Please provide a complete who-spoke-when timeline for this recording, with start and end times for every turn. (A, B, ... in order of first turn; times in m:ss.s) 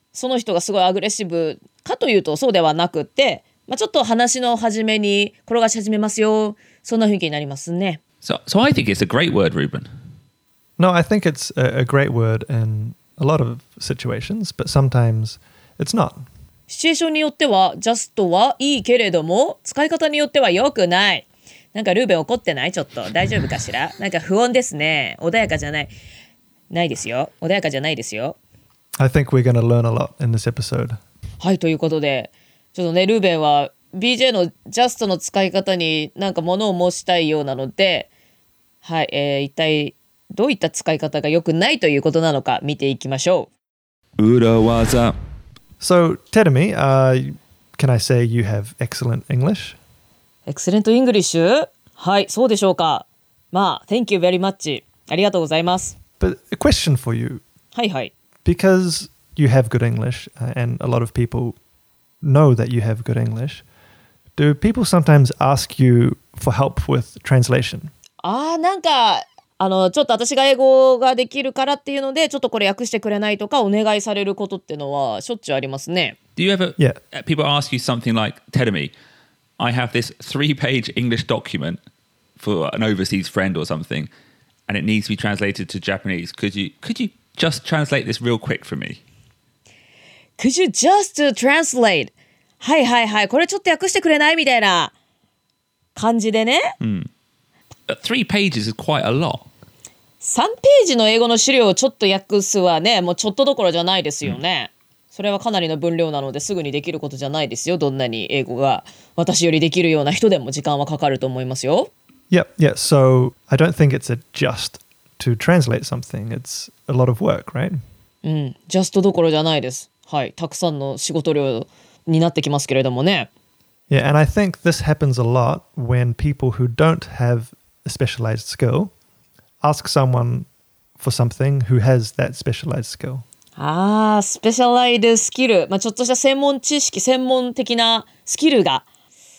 0:00.1-0:08.0 A
0:08.2-0:09.9 B
0:10.8-0:16.2 C
0:16.7-0:25.9 A
0:26.7-0:28.4 A
0:29.0-0:31.0 C
0:31.4-0:38.1 A
0:38.8-0:43.5 A
0:44.2-0:45.2 B
0:45.8-0:49.8 C
0:50.5-0:56.0 A
0:56.2-0:57.4 C
0:57.7-0:58.1 A
0:58.4-1:01.6 C
1:02.2-1:03.6 C
1:04.4-1:07.9 C
1:08.2-1:16.2 A
1:16.4-1:18.9 B
1:19.6-1:21.8 B
1:22.4-1:24.1 B
1:24.7-1:29.0 B
1:30.4-1:34.9 A
1:36.0-1:36.7 A
1:36.8-1:37.1 B
1:37.9-1:39.4 B
1:40.2-1:51.9 A
1:52.3-1:57.8 C
1:58.2-2:03.3 A
2:03.9-2:08.9 C
2:09.6-2:10.5 C
2:11.0-2:13.2 C
2:13.6-2:18.8 A